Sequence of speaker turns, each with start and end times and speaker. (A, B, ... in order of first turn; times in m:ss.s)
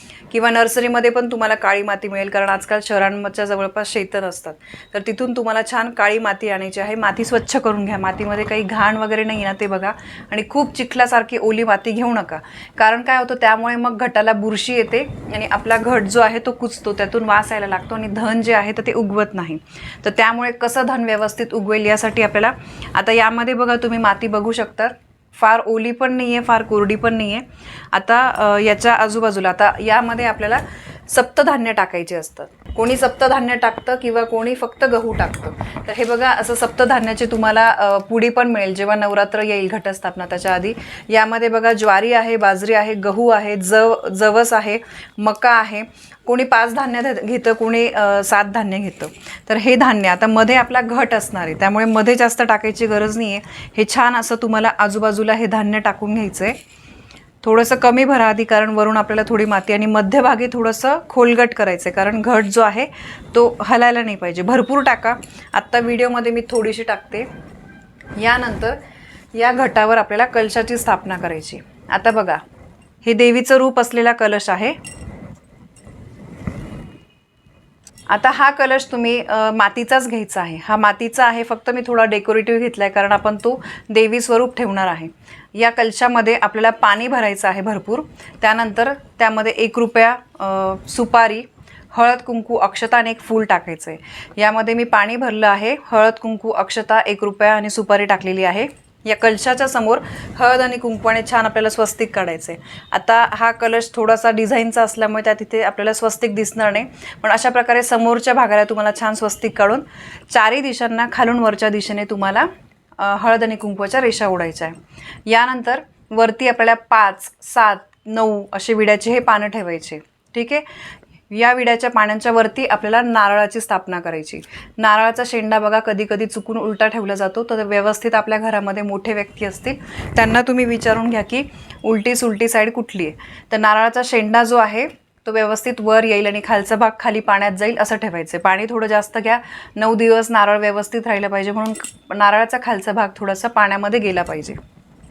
0:00.3-0:56.6 A
0:57.4-1:07.3 A
1:08.2-1:08.8 A
1:09.3-1:12.4 A
1:13.0-1:14.8 A
1:18.1-1:52.5 A
1:53.0-2:00.6 A
2:01.3-2:24.6 A